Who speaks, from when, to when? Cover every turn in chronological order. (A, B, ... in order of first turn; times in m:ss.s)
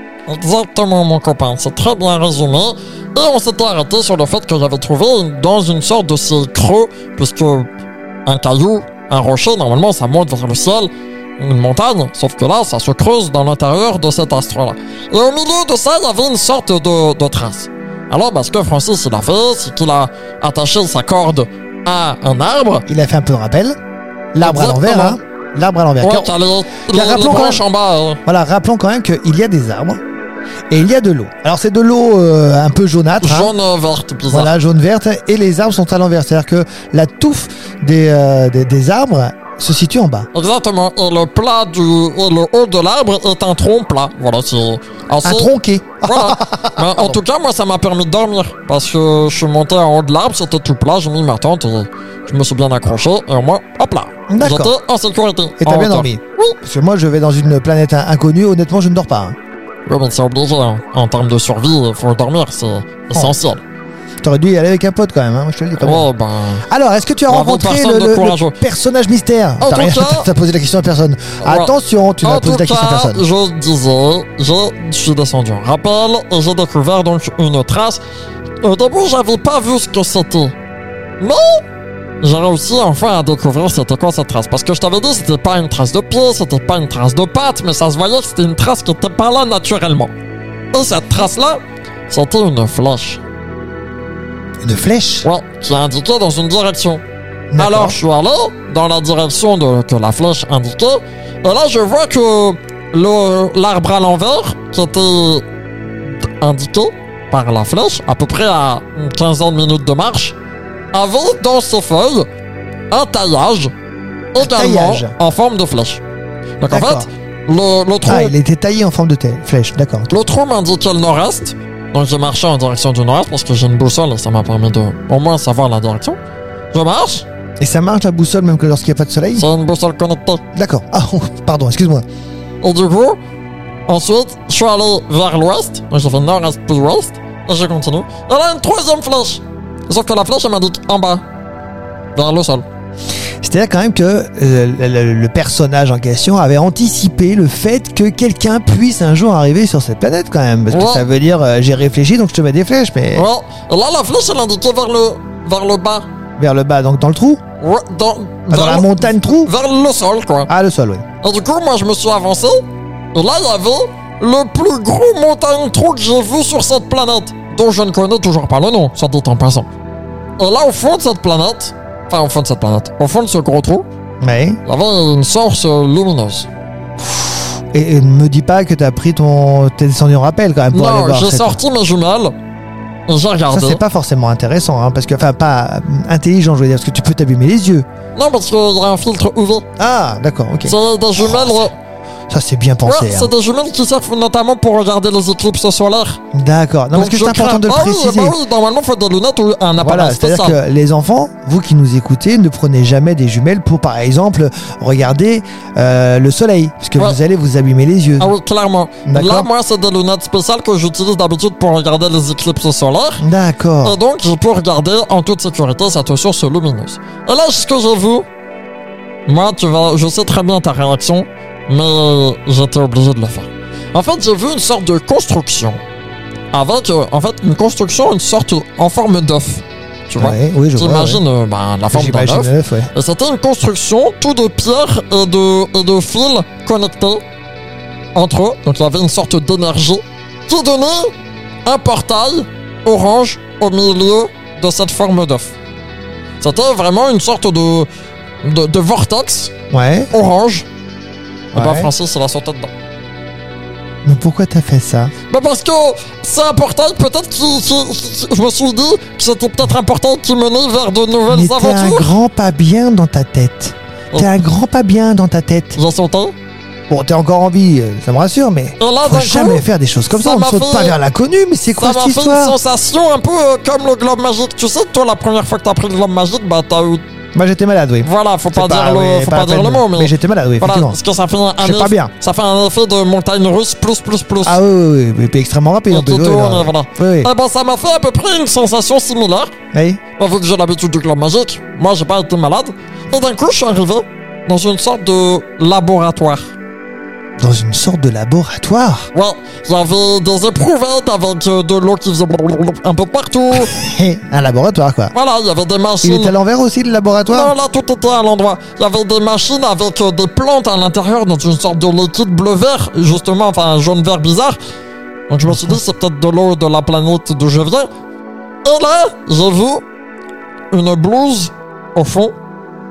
0:00.3-0:07.7 A
0:08.3-0:22.9 A
0:22.9-0:23.8 B
0:24.3-0:26.3 B
0:24.4-0:25.2 A
0:26.0-0:28.2 A
0:26.9-0:27.6 B
0:28.3-0:30.0 B
0:30.7-0:33.5 B
0:33.2-0:34.5 A
0:34.3-0:40.3 B
0:40.3-0:45.5 A
0:45.2-0:47.2 B
0:46.0-0:56.6 A
0:54.3-0:54.7 B
0:55.6-0:59.4 B
0:59.9-1:03.6 A
1:04.2-1:06.1 B
1:05.8-1:06.7 A
1:06.7-1:13.2 B
1:07.3-1:08.6 A
1:09.6-1:10.3 A
1:11.4-1:18.0 A
1:18.6-1:20.5 A
1:21.2-1:21.6 A
1:22.2-1:30.1 A
1:30.7-1:33.2 A
1:34.6-1:35.3 B
1:35.2-1:37.0 A
1:37.5-1:38.0 B
1:37.6-1:45.4 A
1:46.2-1:50.4 A
1:50.9-1:52.3 A
1:52.9-1:53.7 A
1:54.3-1:56.0 A
1:54.4-1:55.1 B
1:56.6-1:58.3 A
1:56.7-1:57.1 B
1:58.0-2:00.1 B
2:00.1-2:06.2 A
2:06.7-2:07.2 A
2:07.6-2:09.5 B
2:09.3-2:10.4 A
2:10.5-2:12.0 B
2:12.6-2:13.2 A
2:13.9-2:21.2 A
2:22.1-2:22.6 A
2:23.4-2:33.3 B
2:30.7-2:31.1 A
2:33.1-2:36.1 A
2:36.4-2:37.4 B
2:37.6-2:40.5 A
2:38.5-2:39.5 B
2:40.5-2:41.0 B
2:41.2-2:49.7 A
2:50.4-2:53.8 A
2:54.2-2:54.6 B
2:54.6-2:56.5 A
2:57.7-3:01.6 B
3:00.7-3:02.3 A
3:03.1-3:03.8 A
3:03.5-3:07.8 B
3:08.1-3:09.7 A
3:09.8-3:11.6 B
3:10.6-3:11.8 A
3:12.3-3:13.3 B
3:12.8-3:16.2 A
3:16.3-3:18.4 B
3:16.9-3:20.6 A
3:19.8-3:28.3 B
3:28.2-3:33.2 A
3:29.1-3:29.5 B
3:33.2-3:34.0 B
3:33.8-3:38.2 A
3:39.2-3:45.8 A
3:46.5-3:57.2 A
3:50.2-3:51.2 B
3:51.9-3:52.9 B
3:58.2-4:01.1 A
4:01.6-4:05.5 A
4:06.4-4:07.9 A
4:08.4-4:09.5 A
4:09.7-4:10.1 B
4:10.1-4:10.7 A
4:11.5-4:11.9 B
4:11.5-4:12.7 A
4:14.0-4:15.1 B
4:15.3-4:22.2 A
4:21.3-4:25.8 B
4:24.1-4:24.4 A
4:25.8-4:26.4 A
4:26.9-4:32.6 B
4:28.8-4:31.0 A
4:31.8-4:37.0 A
4:37.4-4:41.0 B
4:38.0-4:44.6 A
4:41.6-4:42.1 B
4:44.4-4:47.3 B
4:45.9-4:49.5 A
4:49.7-4:50.0 B
4:50.2-4:56.5 A
4:57.4-4:59.1 B
4:59.1-5:03.8 A
5:03.6-5:05.1 B
5:05.1-5:06.4 A
5:06.0-5:07.6 B
5:07.3-5:14.6 A
5:15.3-5:17.9 A
5:15.5-5:15.8 B
5:18.6-5:19.8 A
5:20.7-5:22.4 A